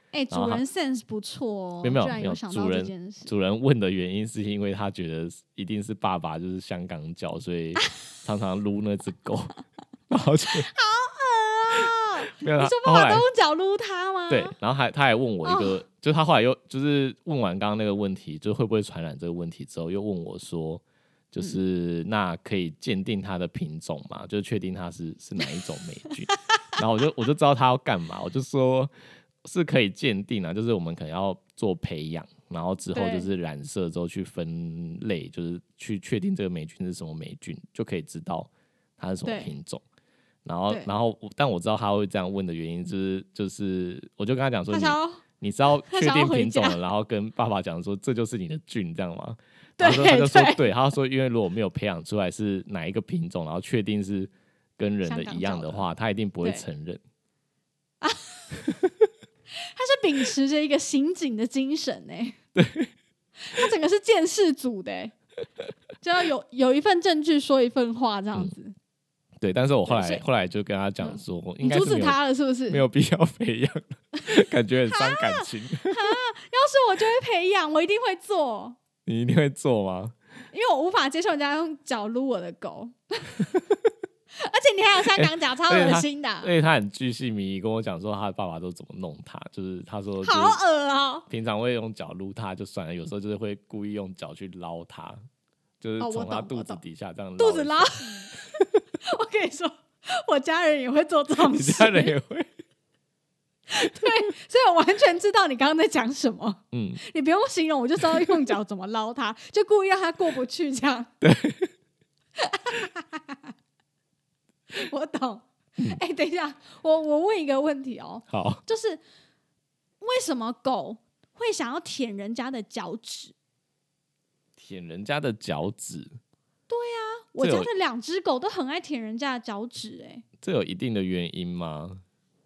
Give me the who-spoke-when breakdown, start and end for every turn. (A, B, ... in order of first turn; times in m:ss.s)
0:00.1-0:03.3 A
0:00.3-0:00.6 B
0:01.8-0:09.6 B
0:10.1-0:10.7 B
0:10.7-0:14.6 A
0:12.2-0:13.2 B
0:14.3-0:28.9 B
0:15.4-0:15.8 A
0:29.4-0:39.8 B
0:32.9-0:33.3 A
0:39.2-0:39.5 A
0:40.4-0:57.0 B
0:44.7-0:45.2 A
0:45.9-0:46.8 A
0:49.8-0:50.7 A
0:55.0-0:55.8 A
0:58.0-0:58.5 A
0:59.7-1:02.4 A
1:02.5-1:02.9 B
1:03.4-1:05.1 A
1:06.0-1:08.7 A
1:09.4-1:12.2 B
1:09.8-1:10.2 A
1:11.0-1:12.8 A
1:12.7-1:16.2 B
1:14.9-1:18.8 A
1:19.0-1:20.1 B
1:20.5-1:23.5 A
1:24.4-1:26.5 A
1:25.1-1:30.6 B
1:30.2-1:31.3 A
1:31.3-1:35.2 B
1:35.8-1:38.6 B
1:36.0-1:36.8 A
1:37.4-1:38.5 A
1:39.0-1:42.1 A
1:41.4-1:42.5 B
1:43.7-1:51.1 A
1:46.7-1:47.0 B
1:48.1-1:48.4 B
1:51.2-1:51.7 B
1:52.4-1:53.5 A
1:54.7-1:59.0 A
1:58.3-1:58.6 B
2:00.0-2:03.3 A
2:04.6-2:06.1 B
2:06.7-2:10.2 A
2:07.4-2:07.7 B
2:10.4-2:12.0 B